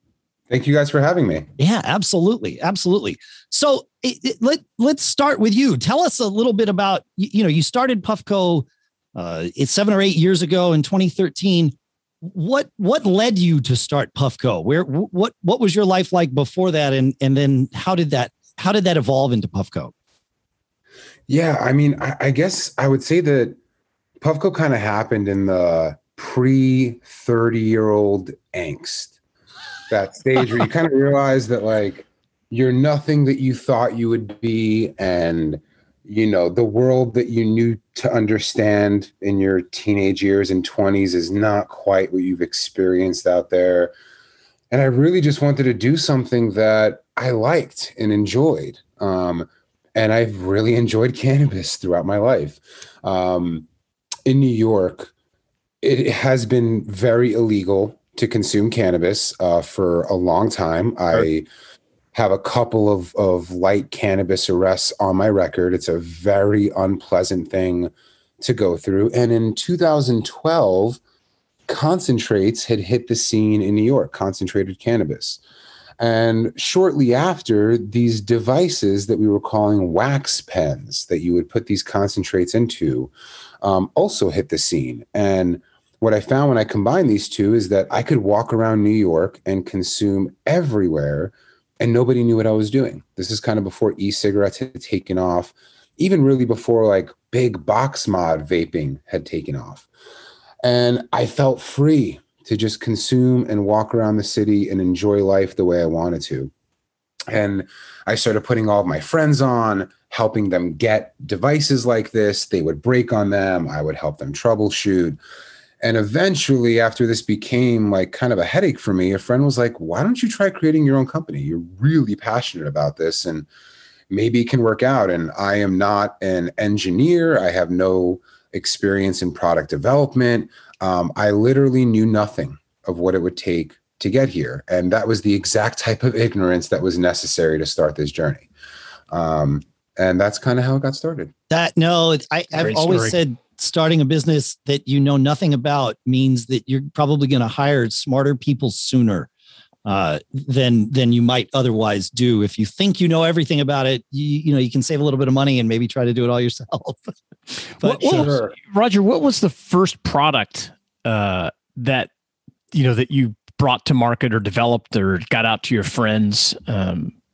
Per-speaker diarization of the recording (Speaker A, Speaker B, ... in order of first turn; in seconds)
Speaker A: 0.5-1.5, 21.3-23.6, 24.2-29.1, 29.9-43.9, 44.7-53.7, 54.2-55.1, 55.8-61.5, 62.1-71.0, 71.7-75.4, 76.0-99.9, 100.6-106.5, 107.3-115.2, 115.8-123.5, 124.1-138.5, 139.1-141.3, 158.1-158.5
Speaker B: 1.6-19.9, 141.5-149.3, 149.8-157.1, 157.8-158.3
Speaker C: 142.6-143.2, 157.8-162.1, 162.7-167.1